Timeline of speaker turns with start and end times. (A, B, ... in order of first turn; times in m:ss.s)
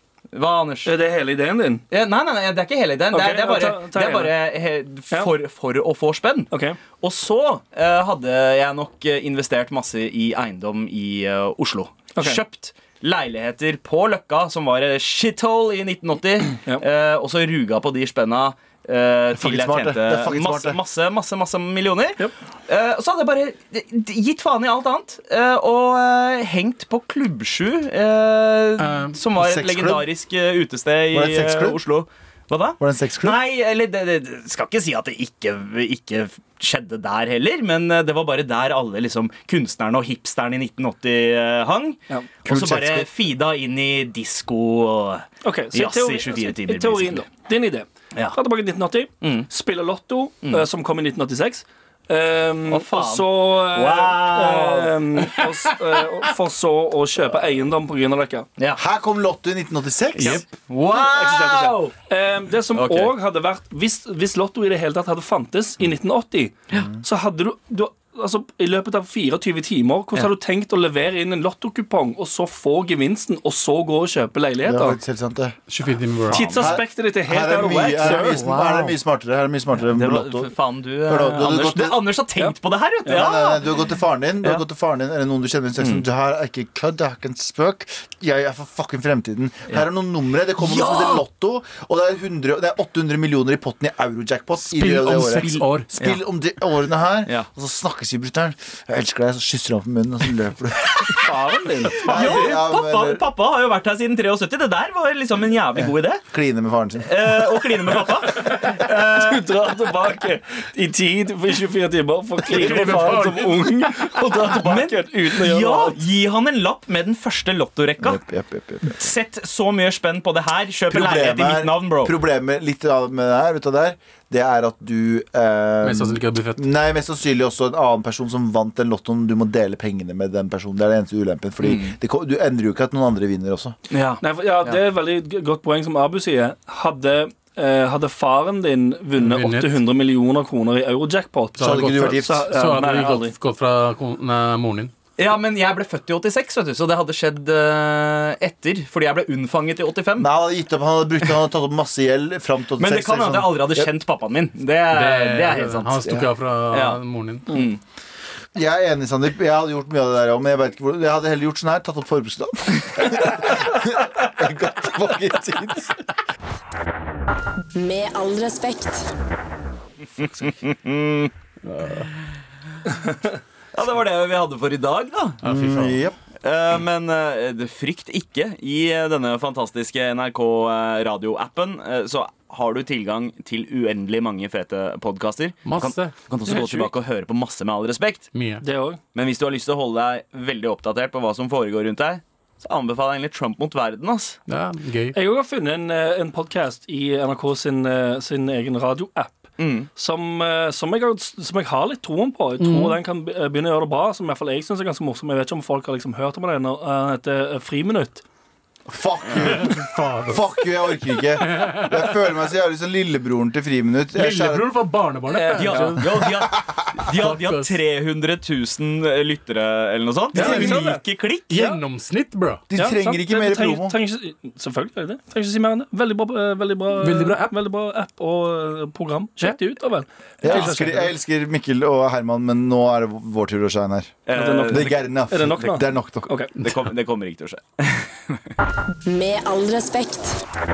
0:00.3-0:00.9 A
0:00.8-0:01.8 B
0:01.9-0:47.3 A
0:03.1-0:04.3 B
0:06.5-0:06.8 B
0:12.2-0:12.4 B
0:19.3-0:20.8 C
0:28.8-0:29.2 D
0:29.3-0:30.0 C
0:31.1-0:31.8 C
0:32.8-0:33.4 C
0:42.4-0:43.1 C
0:45.4-0:58.4 B
0:49.2-0:49.5 A
0:52.7-0:55.8 A
0:58.8-1:00.4 C
1:00.2-1:00.4 D
1:00.2-1:01.9 A
1:00.9-1:15.0 B
1:02.7-1:03.1 A
1:14.6-1:15.6 C
1:15.7-1:16.8 D
1:16.3-1:18.4 B
1:16.6-1:20.5 C
1:17.8-1:19.0 A
1:19.9-1:23.7 A
1:21.0-1:22.0 C
1:23.0-1:23.3 B
1:23.1-1:41.2 C
1:25.8-1:26.0 A
1:30.6-1:31.2 A
1:34.6-1:35.9 D
1:35.3-1:36.2 A
1:41.2-1:42.2 B
1:41.9-1:46.2 A
1:42.0-1:43.2 C
1:45.8-1:47.3 C
1:47.0-1:49.5 A
1:47.9-1:56.0 B
1:52.5-1:53.6 D
1:54.5-1:58.2 A
1:58.0-1:59.0 C
1:58.8-2:02.1 A
2:00.9-2:13.7 C
2:05.8-2:06.6 D
2:11.6-2:11.9 A
2:13.9-2:14.8 A
2:14.2-2:23.3 B
2:19.2-2:19.8 D
2:21.6-2:24.9 D
2:21.6-2:22.5 C
2:25.2-2:30.3 A
2:30.2-2:33.9 C
2:32.8-2:37.8 A
2:34.9-2:37.5 D
2:38.5-2:45.9 C
2:47.7-2:49.1 E
2:50.2-2:51.3 A
2:51.6-2:52.1 D
2:53.7-2:55.4 A
2:55.4-2:56.0 D
2:55.4-2:56.2 C
2:56.4-3:08.3 A
3:05.6-3:06.1 D
3:06.5-3:06.9 B
3:08.3-3:08.6 D
3:08.6-3:09.0 B
3:09.1-3:14.4 A
3:14.5-3:15.2 D
3:15.1-3:28.2 B
3:19.6-3:19.9 A
3:22.6-3:23.0 D
3:28.9-3:34.6 C
3:29.3-3:30.4 D
3:31.4-3:32.1 D
3:34.1-3:36.1 D
3:35.3-3:36.0 B
3:35.6-3:41.7 A
3:37.1-3:37.7 D
3:40.3-3:41.0 B
3:40.3-3:42.6 D
3:42.7-3:44.0 C
3:42.7-3:51.1 B
3:47.0-3:47.6 D
3:50.4-3:56.2 C
3:54.3-3:55.8 A
3:54.3-3:56.5 B
3:56.6-3:58.5 A
3:59.0-4:00.4 E